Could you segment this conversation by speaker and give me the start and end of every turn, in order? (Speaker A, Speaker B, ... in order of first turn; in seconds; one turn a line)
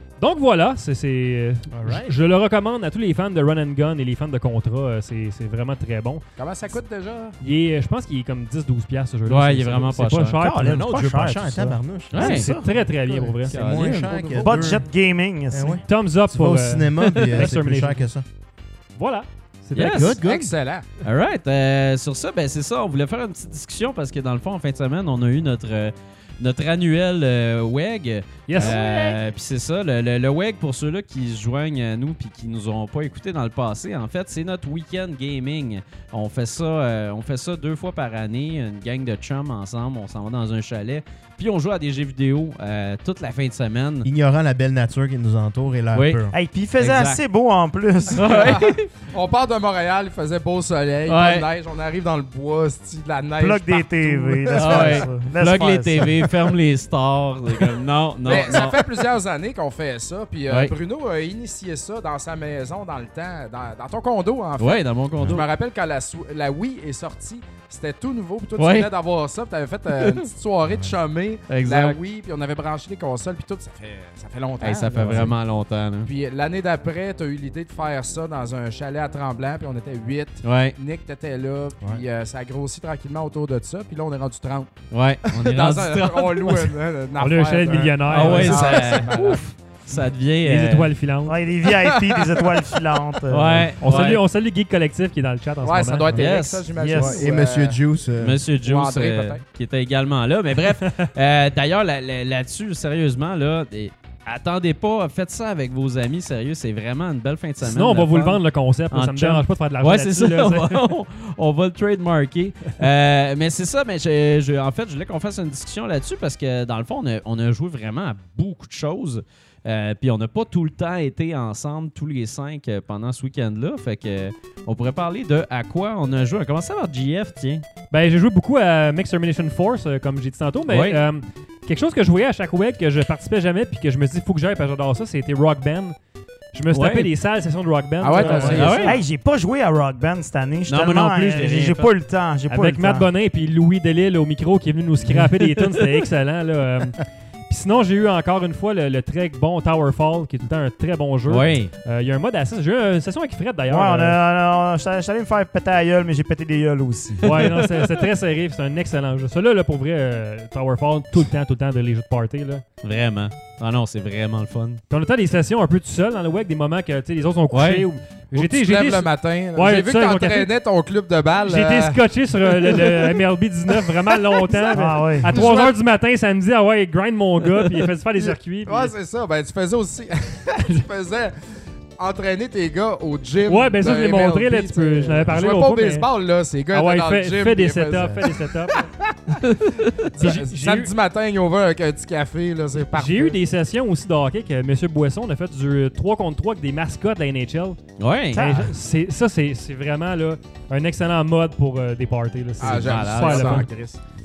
Speaker A: 0.2-6.2
Speaker B: 1.7-2.2
Speaker C: 6.4-7.4
Speaker A: 7.4-10.8
Speaker D: 9.3-10.4
Speaker E: 10.4-12.8
Speaker B: 10.6-12.5
Speaker D: 12.1-12.5
Speaker A: 12.2-13.5
Speaker B: 13.1-14.9
Speaker D: 13.5-14.2
Speaker C: 13.8-14.8
Speaker E: 14.4-15.8
Speaker B: 15.5-18.2
Speaker A: 15.8-18.0
Speaker D: 17.1-17.5
Speaker A: 18.9-20.2
Speaker D: 19.7-20.2
Speaker B: 19.8-20.5
Speaker C: 20.2-20.9
Speaker D: 21.0-44.1
Speaker A: 28.5-29.2
Speaker B: 44.0-46.3
Speaker D: 45.9-46.2
Speaker E: 46.3-48.6
Speaker D: 46.8-47.2
Speaker D: 48.1-48.9
Speaker C: 48.1-55.1
Speaker D: 51.1-51.5
Speaker E: 53.4-56.3
Speaker D: 54.5-58.9
Speaker C: 58.2-75.3
Speaker D: 60.5-60.7
Speaker D: 64.6-65.5
Speaker D: 68.6-68.9
Speaker D: 70.0-70.2
Speaker B: 70.7-70.9
Speaker D: 71.5-72.0
Speaker D: 74.6-76.1
Speaker B: 75.0-75.3
Speaker C: 76.0-84.7
Speaker D: 80.4-80.7
Speaker D: 84.9-86.7
Speaker C: 85.3-89.4
Speaker A: 87.2-88.9
Speaker D: 88.1-90.9
Speaker A: 90.4-91.4
Speaker E: 91.2-93.8
Speaker C: 91.6-93.0
Speaker D: 93.3-94.2
Speaker A: 93.8-96.1
Speaker C: 95.6-97.8
Speaker D: 96.1-96.7
Speaker E: 96.7-97.2
Speaker B: 97.0-98.4
Speaker D: 98.2-127.6
Speaker C: 98.6-99.4
Speaker A: 107.6-110.8
Speaker A: 127.9-135.9
Speaker D: 130.7-131.0
Speaker A: 136.5-138.9
Speaker D: 136.7-137.1
Speaker C: 138.0-139.0
Speaker D: 138.2-139.0
Speaker E: 138.2-143.1
Speaker D: 140.7-141.9
Speaker A: 142.5-154.2
Speaker D: 145.0-145.9
Speaker D: 151.3-151.7
Speaker E: 153.7-157.3
Speaker A: 157.2-162.6
Speaker D: 157.2-157.6
Speaker D: 162.8-164.8
Speaker A: 164.9-170.5
Speaker D: 167.5-167.8
Speaker C: 168.3-172.0
Speaker A: 171.4-178.9
Speaker C: 172.5-173.1
Speaker C: 173.9-174.7
Speaker E: 174.7-175.3
Speaker C: 175.2-175.7
Speaker C: 178.2-181.3
Speaker C: 182.0-189.3
Speaker A: 183.4-186.1
Speaker A: 186.7-188.8
Speaker D: 189.4-190.1
Speaker C: 190.1-193.4
Speaker A: 190.2-190.9
Speaker A: 192.9-197.8
Speaker D: 198.0-198.5
Speaker A: 198.3-203.7
Speaker E: 198.3-198.7
Speaker C: 202.6-204.0
Speaker D: 202.6-203.7